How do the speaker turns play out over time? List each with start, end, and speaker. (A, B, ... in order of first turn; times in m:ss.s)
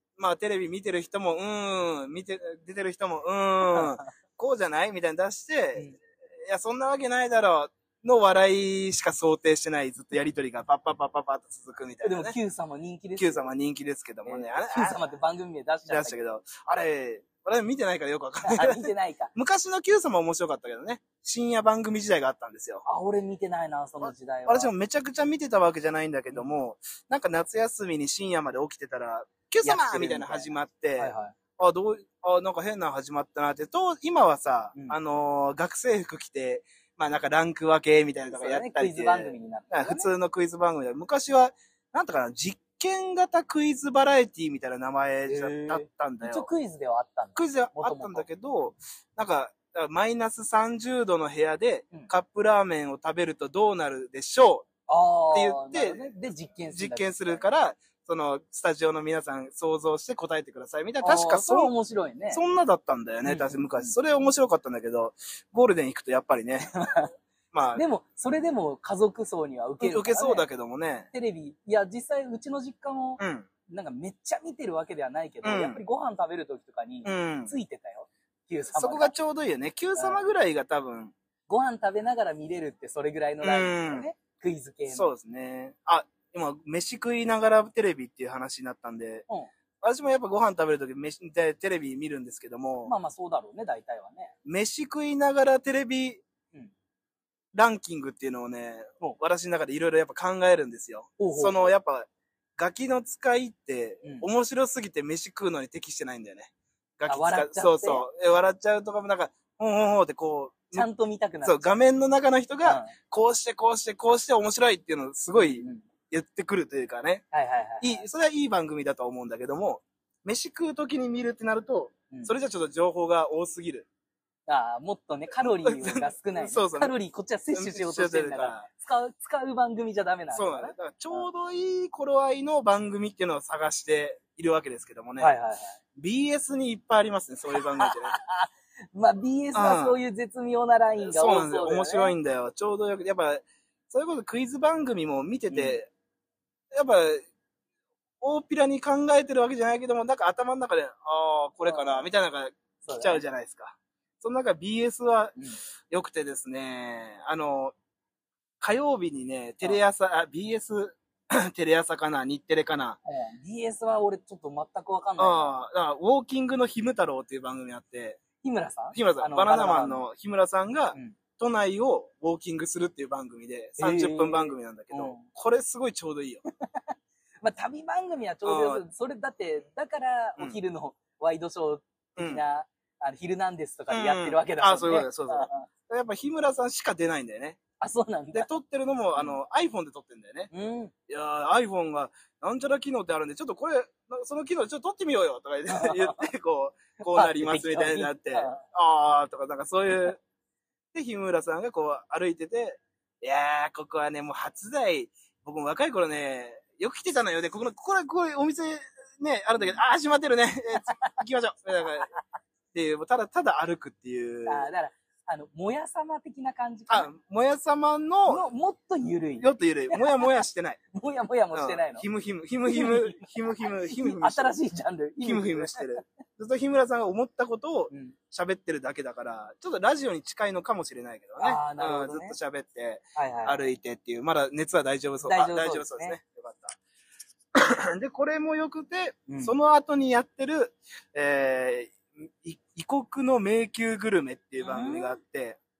0:00.2-0:05.9 A
0:03.6-0:04.1 B
0:06.4-0:12.4 A
0:12.0-0:13.5 B
0:13.2-0:15.0 A
0:14.2-0:16.2 B
0:15.9-0:22.8 A
0:18.4-0:19.3 B
0:22.8-0:24.7 B
0:24.0-0:46.5 A
0:29.6-0:31.3 B
0:38.3-0:40.1 B
0:45.2-0:48.3 B
0:47.4-0:54.7 A
0:54.9-0:57.5 B
0:55.3-0:56.1 A
0:56.7-1:01.7 A
1:01.0-1:02.4 B
1:02.3-1:06.7 A
1:03.2-1:04.0 B
1:06.7-1:07.1 B
1:07.5-1:07.8 A
1:07.7-1:10.4 B
1:09.8-1:11.1 A
1:11.1-1:19.1 B
1:13.2-1:13.5 A
1:15.4-1:15.8 A
1:17.0-1:17.5 A
1:18.7-1:21.1 A
1:20.0-1:20.2 B
1:21.5-1:25.1 B
1:23.4-1:24.1 A
1:24.9-1:29.2 A
1:29.8-1:32.9 A
1:32.8-1:34.3 B
1:34.4-1:36.2 A
1:37.5-1:50.9 A
1:41.2-1:41.7 B
1:47.1-1:48.0 B
1:50.7-1:51.7 B
1:51.4-1:57.2 A
1:52.6-1:52.9 B
1:55.4-1:55.8 B
1:57.3-1:58.0 B
1:57.8-2:03.9 A
2:04.5-2:11.3 B
2:05.6-2:06.9 A
2:07.5-2:08.7 A
2:10.3-2:15.3 A
2:15.2-2:15.8 B
2:16.0-2:18.2 A
2:17.5-2:22.1 B
2:19.5-2:20.0 A
2:21.0-2:25.9 A
2:25.5-2:25.8 B
2:26.7-2:27.2 A
2:28.2-2:35.3 A
2:31.6-2:32.1 B
2:32.8-2:33.2 B
2:35.9-2:37.7 A
2:38.6-2:43.0 A
2:43.0-2:45.6 B
2:45.2-2:48.2 A
2:48.4-2:50.0 B
2:48.9-2:56.4 A
2:53.8-2:55.3 B
2:56.6-3:05.6 B
2:58.4-2:58.8 A
3:02.2-3:02.4 A
3:03.9-3:07.6 A
3:07.8-3:08.5 B
3:08.3-3:10.5 A
3:10.5-3:10.9 B
3:11.1-3:20.2 A
3:15.7-3:16.3 B
3:17.0-3:18.6 B
3:20.9-3:32.1 A
3:30.8-3:31.2 B
3:32.7-3:34.7 A
3:34.4-3:37.1 B
3:36.9-3:38.4 A
3:38.3-3:40.4 B
3:39.4-3:40.8 A
3:40.9-3:42.0 B
3:41.5-3:44.5 A
3:42.7-3:46.0 B
3:45.2-3:56.8 A
3:47.9-3:48.1 B
3:51.4-3:52.4 B
3:53.2-3:53.6 B
3:55.2-3:56.2 B
3:57.5-4:05.6 A
3:59.3-3:59.5 B
4:04.6-4:05.2 B